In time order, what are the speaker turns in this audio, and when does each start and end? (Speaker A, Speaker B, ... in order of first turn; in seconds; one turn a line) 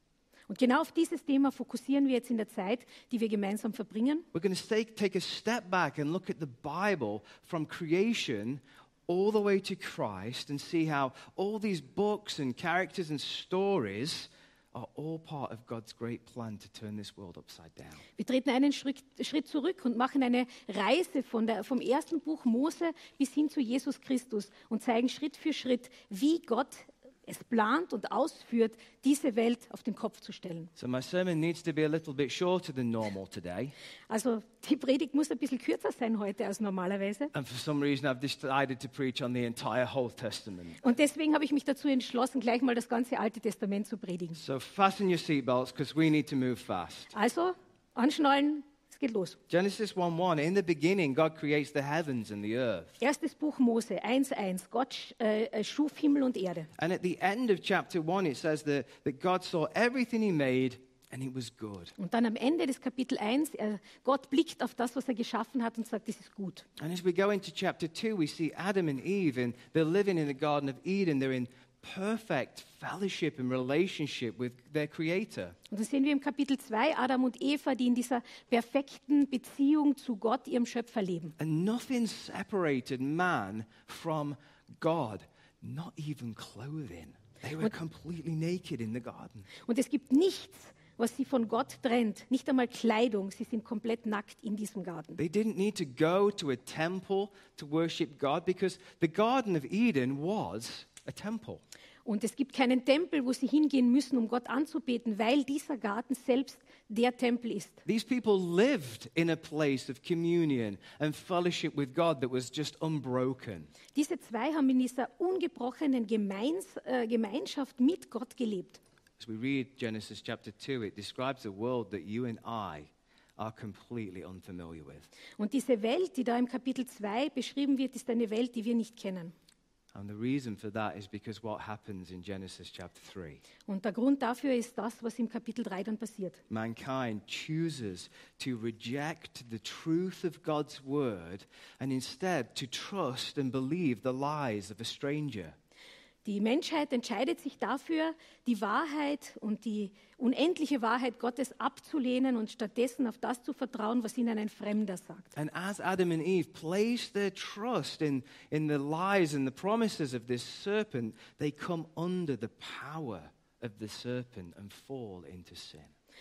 Speaker A: 0.5-4.2
Speaker B: 4.3-18.0
Speaker A: 18.2-30.7
Speaker B: 30.8-33.7
Speaker A: 34.1-37.3
Speaker B: 37.3-40.8
Speaker A: 40.8-44.4
Speaker B: 44.4-47.1
Speaker A: 47.1-49.4
Speaker B: 49.5-53.0
Speaker A: 53.0-56.7
Speaker B: 56.8-61.9
Speaker A: 62.0-66.7
Speaker B: 66.8-75.5
Speaker A: 75.7-81.3
Speaker B: 81.4-89.5
Speaker A: 89.7-95.2
Speaker B: 95.2-101.6
Speaker A: 102.0-107.8
Speaker B: 107.8-113.7
Speaker A: 113.9-118.8
Speaker B: 119.2-125.1
Speaker A: 125.4-129.3
Speaker B: 129.9-133.4
Speaker A: 133.7-136.4
Speaker B: 136.5-145.6
Speaker A: 146.2-155.3
Speaker B: 155.3-165.9